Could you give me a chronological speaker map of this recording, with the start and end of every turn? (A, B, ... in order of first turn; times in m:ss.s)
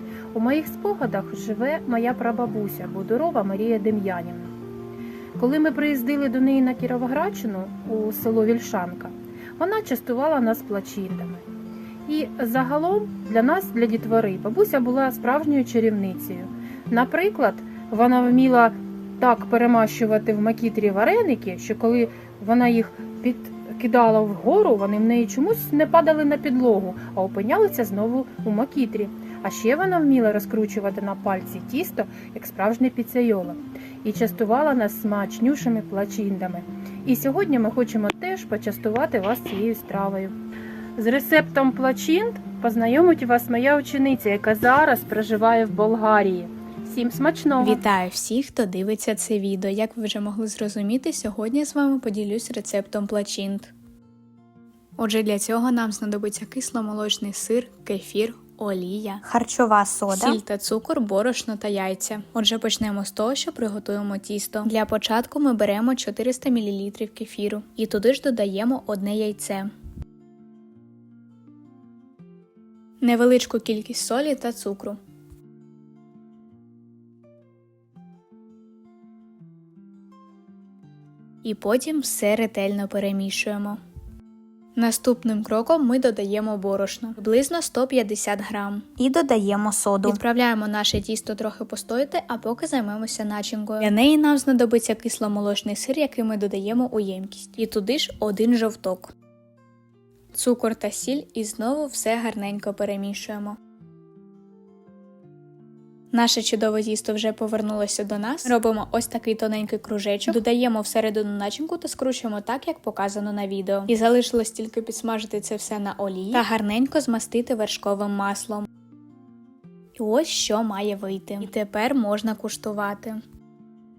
0:00.3-0:04.5 A
0:05.4-0:11.5 A
0:12.1-0:40.3 A
0:41.0-0:47.8 A
0:47.6-0:53.7 B
0:55.0-0:59.2 B
0:59.2-1:00.4 C
1:00.1-1:09.7 B
1:13.0-1:15.0 B
1:21.4-1:23.8 B
1:24.8-1:29.0 B
1:29.0-1:30.2 C
1:30.0-1:39.1 B
1:40.3-1:43.6 B
1:46.1-1:58.7 B
2:00.0-2:03.2 B